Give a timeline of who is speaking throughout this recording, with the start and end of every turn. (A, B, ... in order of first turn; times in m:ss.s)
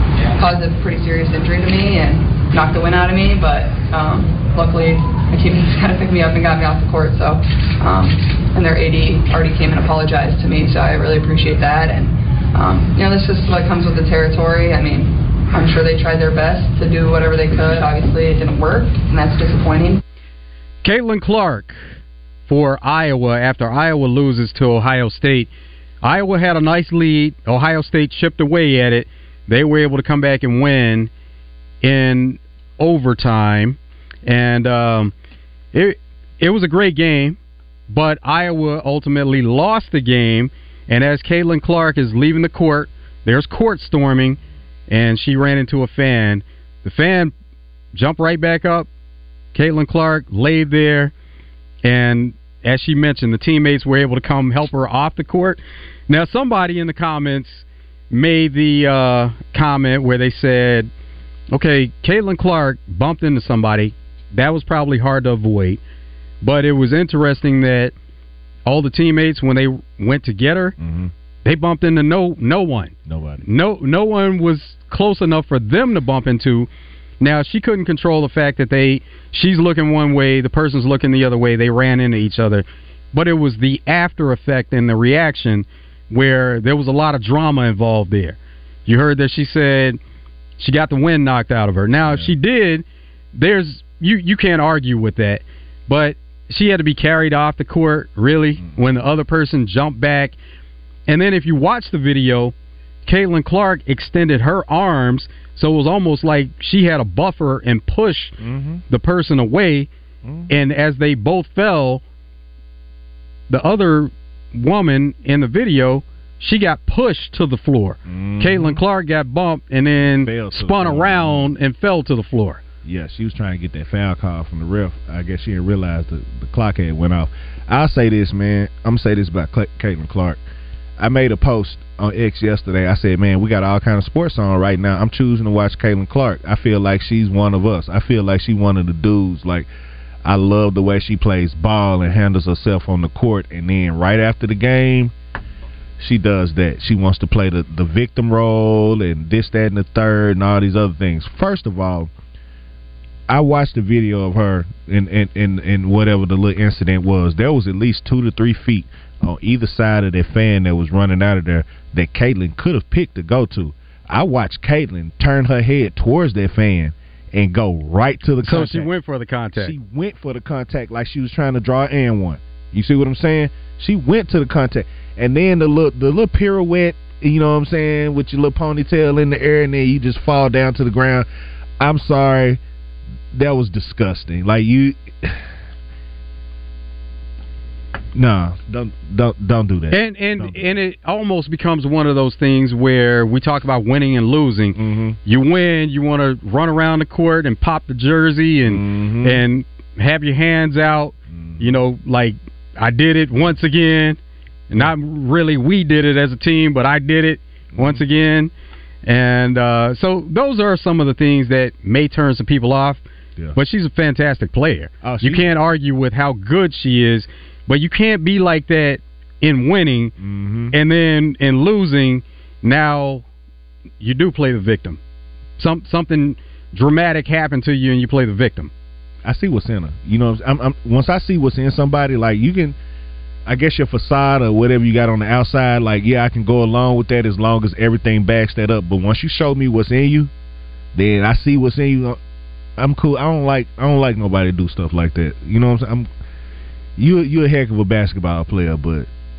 0:00.3-0:20.0 A
0:20.8-0:21.8 B
0:22.5-0:25.5 B
0:26.0-0:31.1 B
0:31.8-0:35.1 B
0:35.7-0:37.4 B
0:37.9-0:47.3 B
0:47.9-0:48.9 B
0:49.5-0:51.1 B
0:51.8-1:00.9 B
1:01.5-1:05.8 B
1:06.4-1:07.9 B
1:08.6-1:10.8 B
1:10.8-1:11.1 C
1:11.4-1:16.7 B
1:13.0-1:13.4 C
1:17.2-1:30.0 B
1:30.6-1:40.3 B
1:32.0-1:32.3 C
1:41.1-1:42.5 B
1:43.0-1:48.4 B
1:48.4-1:48.8 C
1:48.9-1:49.9 B
1:50.2-1:50.5 C
1:50.5-1:52.0 B
1:53.5-2:02.6 B
1:58.0-1:58.8 C
2:00.0-2:01.5 C
2:02.8-2:10.4 C
2:11.0-2:19.7 C
2:20.2-2:25.1 C
2:26.0-2:32.1 C
2:33.3-2:48.9 C
2:48.4-2:49.7 B
2:49.6-3:01.2 C
3:01.8-3:02.6 C
3:03.3-3:05.4 C
3:08.1-3:10.6 C
3:09.9-3:24.2 B
3:14.8-3:15.2 C
3:18.6-3:19.4 C
3:21.3-3:21.8 C
3:24.7-3:28.5 B
3:27.7-3:28.0 C
3:29.0-3:33.0 B
3:33.5-3:40.1 B
3:35.0-3:35.5 C
3:40.2-3:40.8 C
3:40.7-3:43.2 B
3:44.0-3:45.0 B
3:45.6-3:48.7 B
3:49.2-3:52.8 C
3:53.4-4:00.3 C
4:00.9-4:02.2 C
4:02.8-4:06.1 C
4:07.0-4:09.1 C